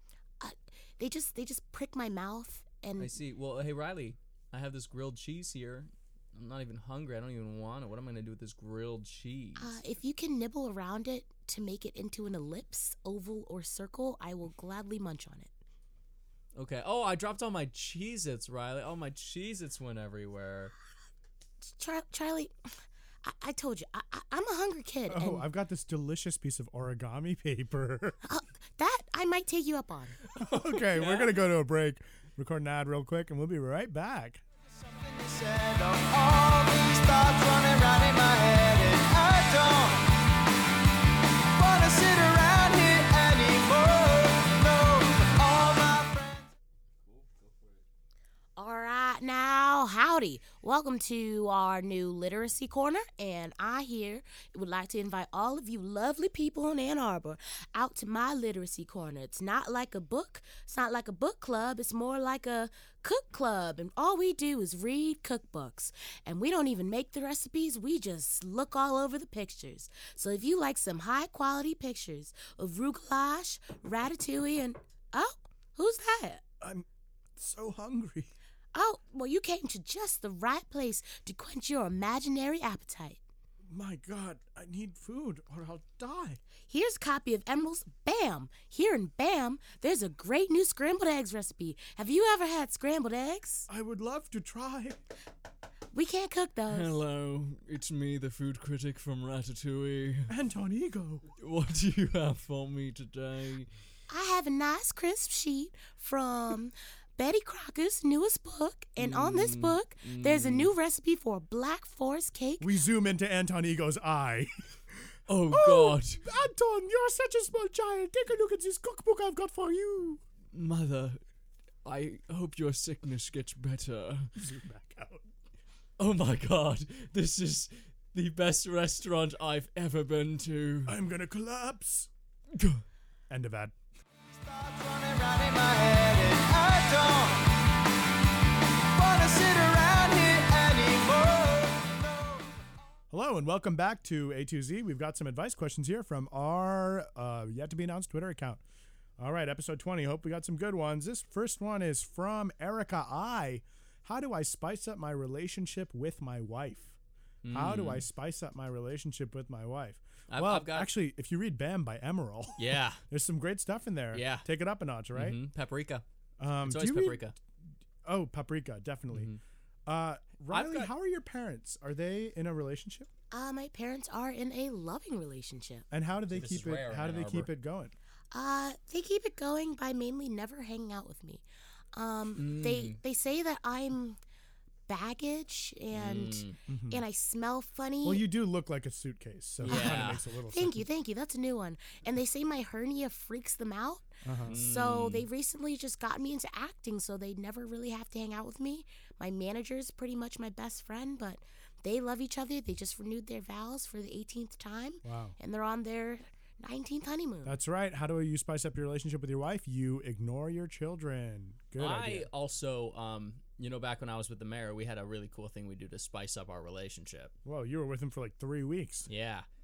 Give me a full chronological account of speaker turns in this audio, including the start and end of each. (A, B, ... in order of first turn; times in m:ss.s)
0:00.4-0:03.2 A
0:03.0-0:09.8 B
0:09.6-0:15.5 A
0:16.5-0:20.7 B
0:21.6-0:22.5 A
0:23.2-0:25.4 A
0:25.1-0:28.2 C
0:28.2-0:30.2 A
0:30.3-0:31.3 B
0:30.4-0:34.4 C
0:34.8-0:40.1 D
0:41.5-0:46.5 D
0:48.6-1:16.4 A
1:16.6-1:18.3 C
1:18.7-1:23.2 A
1:23.7-1:26.4 C
1:26.7-1:33.7 A
1:33.7-1:35.0 C
1:35.9-1:37.0 A
1:36.7-1:40.3 B
1:40.3-1:41.3 C
1:41.4-1:43.7 B
1:44.1-1:52.7 A
1:49.0-1:50.7 B
1:52.6-1:54.7 C
1:55.3-1:56.2 B
1:55.5-2:00.2 C
2:00.5-2:01.2 B
2:01.8-2:04.3 B
2:04.4-2:05.2 C
2:06.0-2:11.0 B
2:10.8-2:12.1 C
2:12.5-2:12.8 B
2:13.3-2:13.7 C
2:14.3-2:17.5 D
2:18.9-2:22.6 D
2:23.1-2:28.6 C
2:29.2-2:37.0 C
2:37.4-2:38.0 B
2:37.5-2:45.4 C
2:40.3-2:40.9 B
2:42.6-2:43.0 B
2:44.1-2:44.4 B
2:45.1-2:46.0 B
2:46.4-2:47.2 C
2:46.6-2:47.3 B
2:48.0-2:49.3 C
2:49.1-2:49.4 B
2:49.8-2:53.1 C
2:50.5-2:50.9 B
2:53.3-2:55.8 A
2:55.9-2:57.9 C
2:56.3-2:57.5 B
2:58.3-3:01.4 A
3:01.9-3:04.2 A
3:02.4-3:03.0 B
3:04.9-3:08.2 A
3:05.9-3:06.6 B
3:06.7-3:07.0 C
3:08.0-3:10.8 C
3:09.6-3:10.2 B
3:09.7-3:27.6 A
3:14.2-3:14.6 C
3:14.4-3:15.2 B
3:25.0-3:25.4 C
3:27.4-3:32.3 C
3:31.8-3:37.3 B
3:37.4-3:39.1 C
3:39.1-3:39.4 B